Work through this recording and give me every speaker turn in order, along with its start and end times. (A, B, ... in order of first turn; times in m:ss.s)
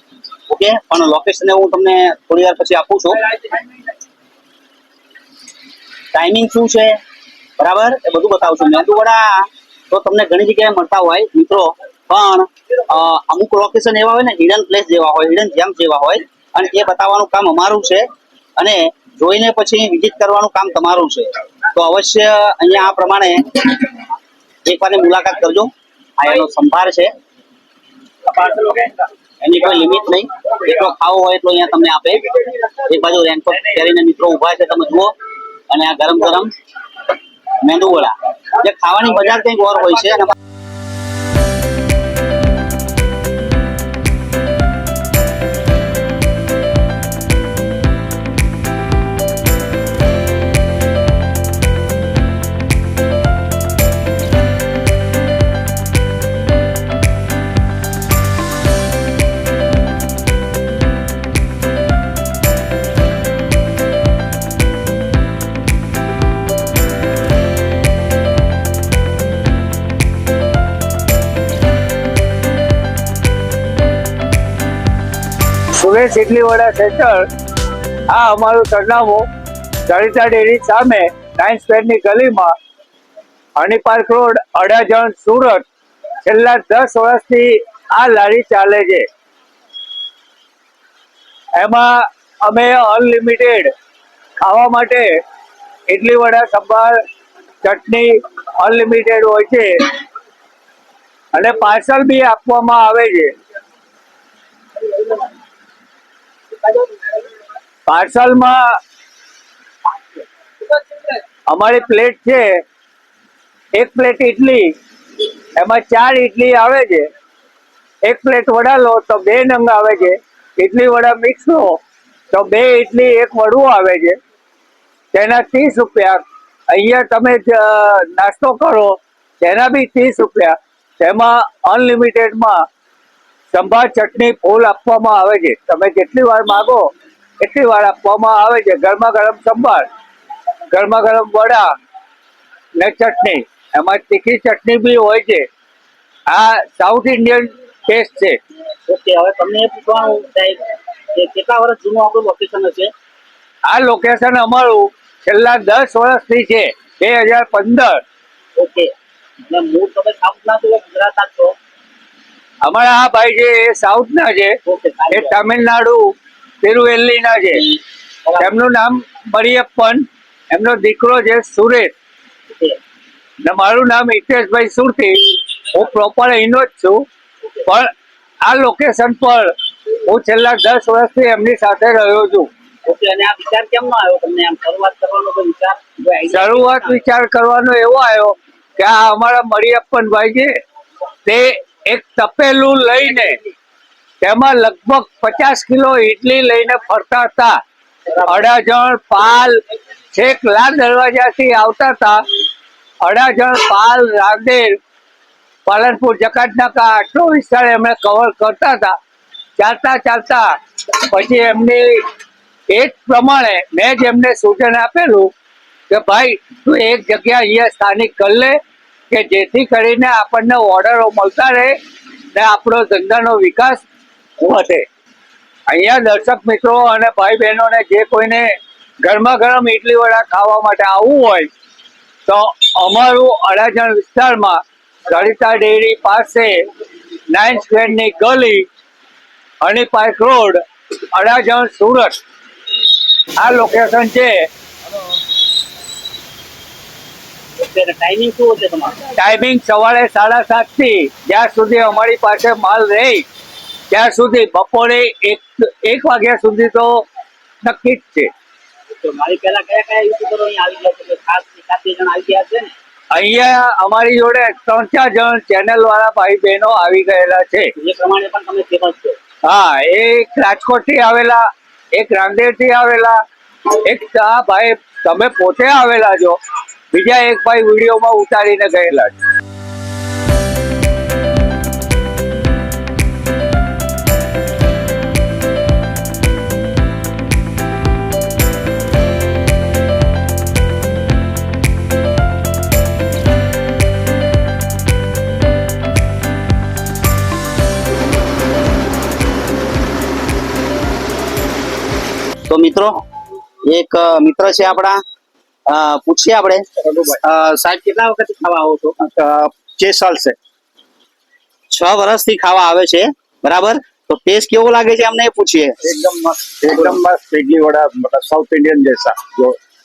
0:00.5-0:03.6 A
0:06.1-0:07.0 A
0:07.6-0:18.0 A
0:18.6-0:23.9 A
0:24.6-0:27.1 A
0:28.3-0:35.1 A
0:35.7-0:36.5 A
0:37.5-0:40.3 A
1:15.8-1:17.3 B
1:18.1-1:19.2 B
1:19.9-1:22.5 B
1:23.6-1:25.6 B
1:26.2-1:29.1 B
1:31.5-1:33.7 B
1:34.4-1:35.2 B
1:35.9-1:37.0 B
1:37.6-1:40.0 B
1:41.3-1:43.3 B
1:44.9-1:45.2 B
1:47.9-1:48.8 B
1:50.7-1:52.6 B
1:53.7-1:57.1 B
1:58.0-2:01.8 B
2:02.3-2:04.2 B
2:05.1-2:12.6 B
2:13.5-2:16.9 B
2:17.4-2:19.9 B
2:20.7-2:21.7 B
2:22.8-2:25.5 B
2:26.3-2:28.4 B
2:28.9-2:32.9 A
2:33.6-2:38.0 B
2:38.6-2:38.9 A
2:39.5-2:41.5 A
2:42.6-2:44.6 B
2:44.6-2:45.4 A
2:45.1-2:47.8 B
2:48.4-2:51.9 B
2:53.4-2:57.0 B
2:57.6-2:57.9 B
2:58.4-3:02.5 B
3:02.9-3:07.0 A
3:06.3-3:10.6 B
3:11.2-3:13.4 B
3:14.2-3:17.6 B
3:18.1-3:19.6 B
3:20.1-3:22.2 B
3:23.0-3:24.8 B
3:25.6-3:29.0 B
3:29.6-3:32.0 B
3:32.7-3:35.3 B
3:35.9-3:38.6 B
3:39.1-3:41.8 B
3:42.3-3:43.8 B
3:44.4-3:44.8 B
3:45.7-3:51.5 B
3:52.3-3:56.7 B
3:57.3-3:58.7 B
3:59.6-4:02.2 B
4:03.4-4:04.5 B
4:07.6-4:09.0 A
4:09.1-4:13.2 B
4:13.9-4:17.0 B
4:17.6-4:18.3 B
4:18.9-4:22.7 A
4:23.1-4:27.7 B
4:27.8-4:29.2 A
4:29.4-4:36.4 B
4:36.9-4:39.2 B
5:02.5-5:03.0 A
5:03.7-5:05.0 A
5:05.7-5:09.0 A
5:09.0-5:10.4 C
5:11.7-5:15.8 A
5:15.8-5:19.6 C